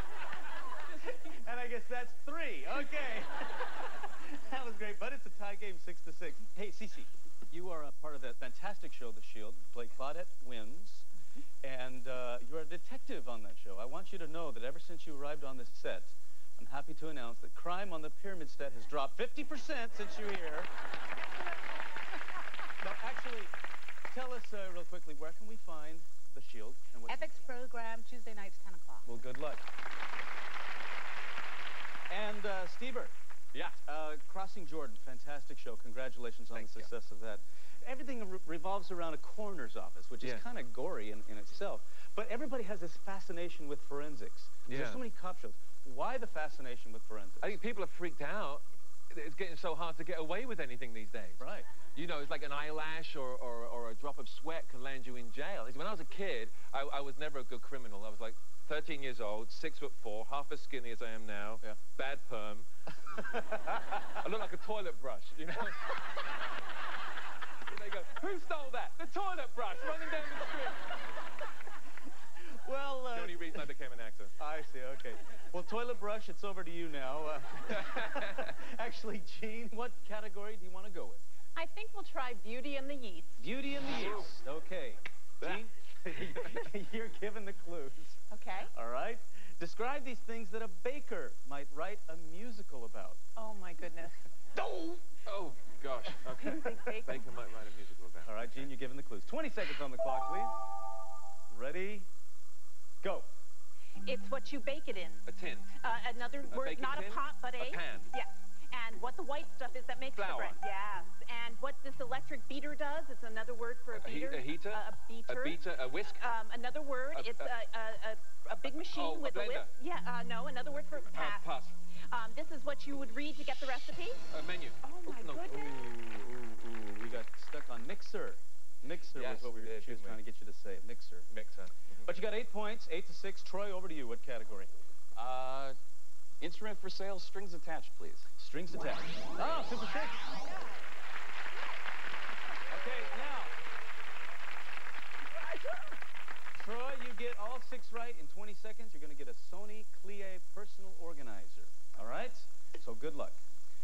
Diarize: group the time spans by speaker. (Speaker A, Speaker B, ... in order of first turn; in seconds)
Speaker A: 1.1-11.1, 11.6-20.7, 22.8-23.5, 24.1-27.4, 29.0-29.6, 32.1-33.1, 33.8-47.6, 51.4-51.6, 72.6-73.6, 74.4-81.2, 83.4-88.2, 88.7-93.2, 98.2-100.6, 101.5-102.1, 103.0-103.3, 125.4-131.3, 132.1-134.7, 138.4-140.4, 142.7-143.5, 146.5-153.4
Speaker B: 27.1-29.1
Speaker C: 36.5-36.9, 44.7-45.0, 47.4-62.7, 64.2-66.2, 67.7-70.8, 73.1-74.3, 77.8-78.5, 83.9-84.2, 95.2-98.7, 105.3-105.7, 106.5-108.1, 110.1-110.6, 113.9-116.2, 117.1-117.5, 118.9-119.7, 121.1-121.7, 124.3-125.8, 129.1-130.2, 131.3-132.2
Speaker D: 81.5-83.4, 88.3-88.7, 93.3-94.9, 96.4-97.2, 104.0-105.2, 105.8-115.6, 116.2-121.5, 122.1-124.2, 125.0-125.8
Speaker E: 135.1-135.8, 136.4-138.3